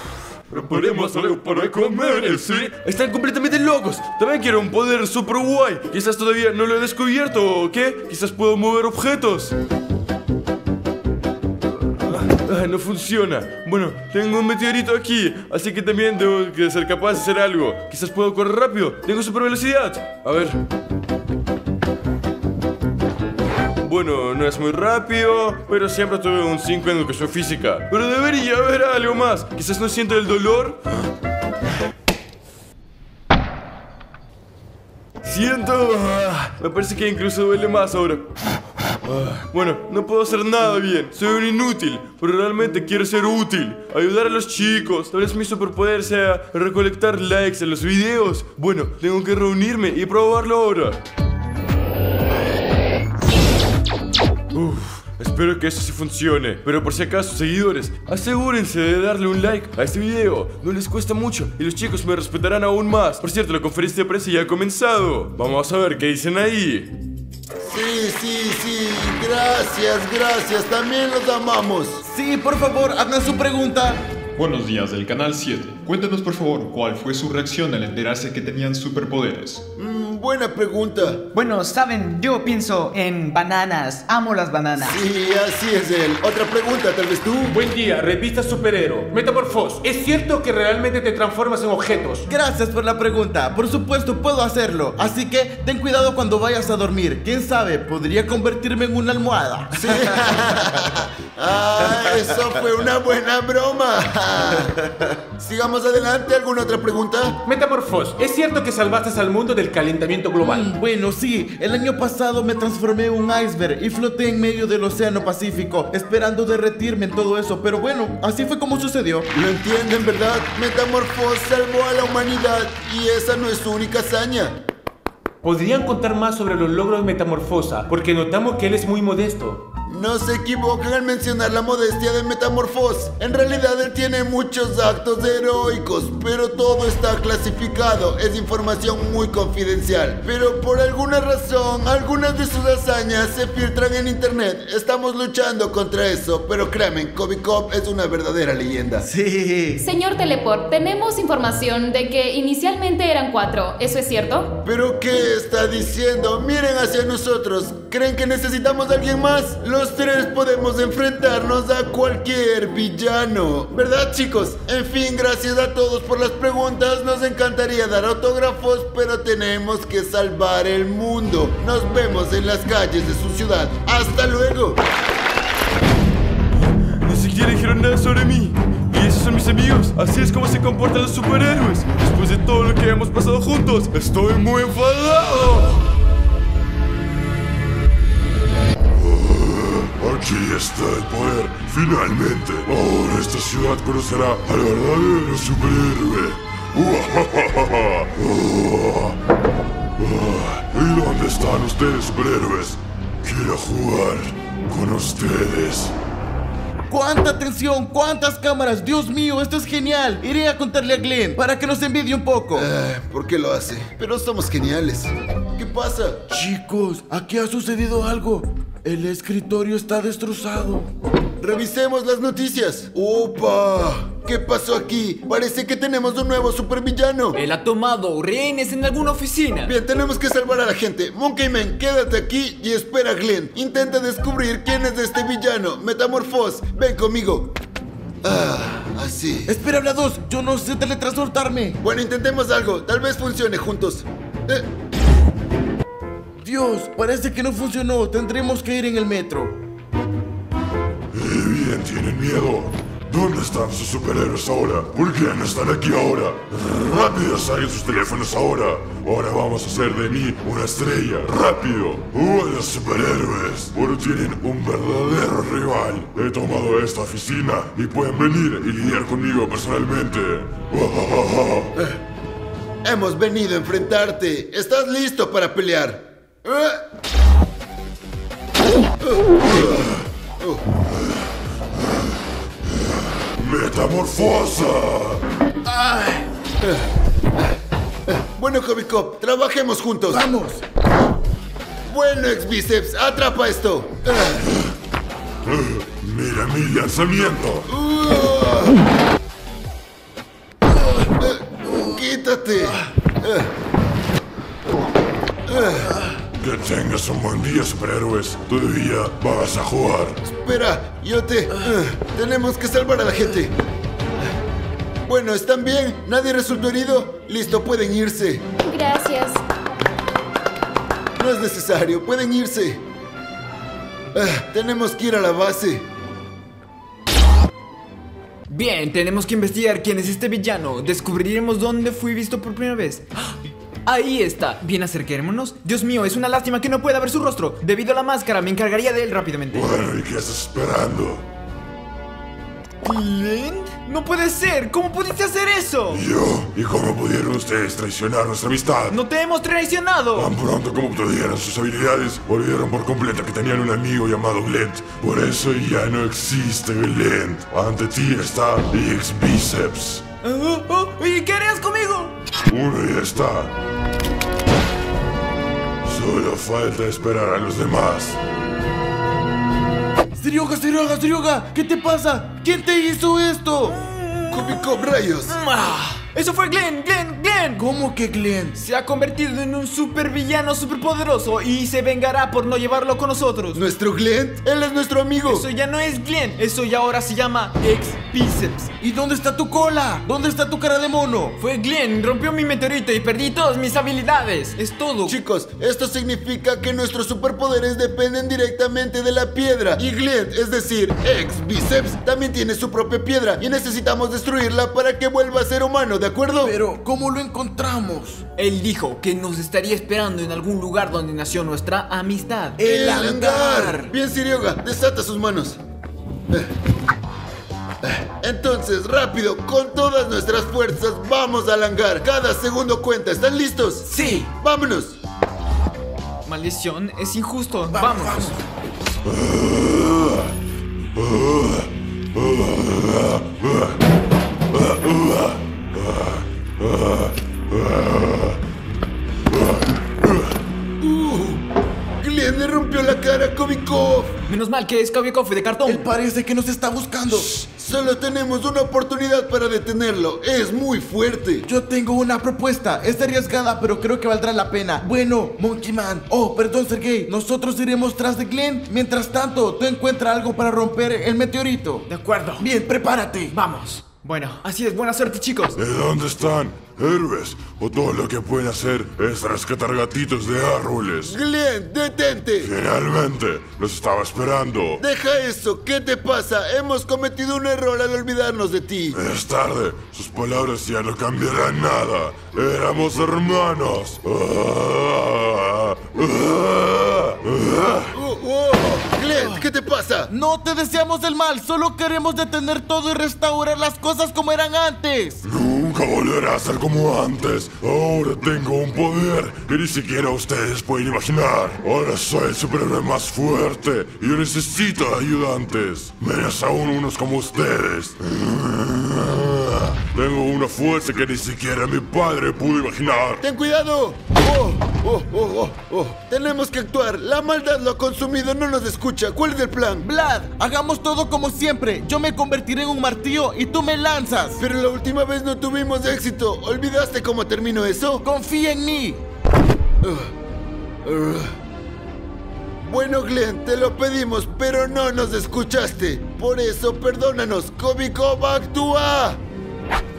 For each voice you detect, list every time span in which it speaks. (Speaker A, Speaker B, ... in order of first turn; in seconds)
Speaker A: 0.5-9.5, 12.0-20.6, 23.8-30.8, 35.2-38.3, 39.0-51.0, 54.5-66.9, 177.0-185.8
Speaker B: 0.5-1.5, 2.1-2.4, 189.0-199.1, 200.0-205.9, 251.1-271.7, 282.8-285.2, 295.5-297.7, 306.4-310.2, 339.5-341.2, 345.9-348.9, 350.1-360.0, 362.5-363.5, 365.8-368.2, 429.1-430.2, 430.9-433.7, 434.5-438.4, 439.3-440.3, 465.6-471.1, 472.4-474.8, 478.9-487.9, 495.2-513.2
Speaker C: 67.6-72.0, 79.8-81.2, 84.8-87.5, 99.7-104.7, 105.4-107.4, 119.3-124.6, 129.9-149.1, 154.6-174.8, 212.6-216.2, 221.4-227.4, 229.7-237.5, 238.2-239.5, 241.8-244.7, 272.8-276.8, 279.0-279.9, 288.1-290.3, 291.9-294.4, 297.7-298.8, 301.1-303.5, 305.5-306.0, 310.2-313.5, 315.1-318.4, 321.1-322.8, 324.1-325.9, 374.3-375.4, 383.5-385.5, 395.1-406.6, 412.6-415.6, 417.9-425.0, 440.8-441.4, 442.0-444.1, 447.4-451.4, 471.1-472.5, 474.8-478.9, 487.9-490.1, 513.2-519.9, 524.4-528.0, 529.8-530.1, 530.8-531.3, 532.6-539.2
Speaker D: 72.0-74.0, 92.3-100.4, 104.8-105.1, 110.4-119.3, 149.0-149.8, 206.9-212.7, 216.3-220.9, 239.5-241.8, 246.4-249.5, 285.7-286.2, 290.1-290.6, 370.1-373.8, 377.6-378.6, 388.8-391.4, 406.4-408.2, 412.6-413.9, 423.9-424.3, 427.7-428.4, 445.6-447.3, 451.4-461.8, 462.4-463.3, 490.1-495.2, 519.8-524.4, 528.0-529.0
Speaker E: 74.4-79.6
Speaker F: 81.3-85.0
Speaker G: 87.5-92.2, 107.4-110.7, 125.4-129.6
Speaker H: 149.8-154.5, 318.6-319.4
Speaker I: 227.4-229.7, 328.5-333.3, 333.9-339.9, 342.8-346.0, 348.9-350.3, 360.2-362.1, 373.8-377.6, 378.6-383.6, 385.2-388.7, 391.4-395.2, 408.4-412.6, 423.9-424.2, 426.2-428.4, 444.3-445.9, 461.9-462.4, 463.3-465.6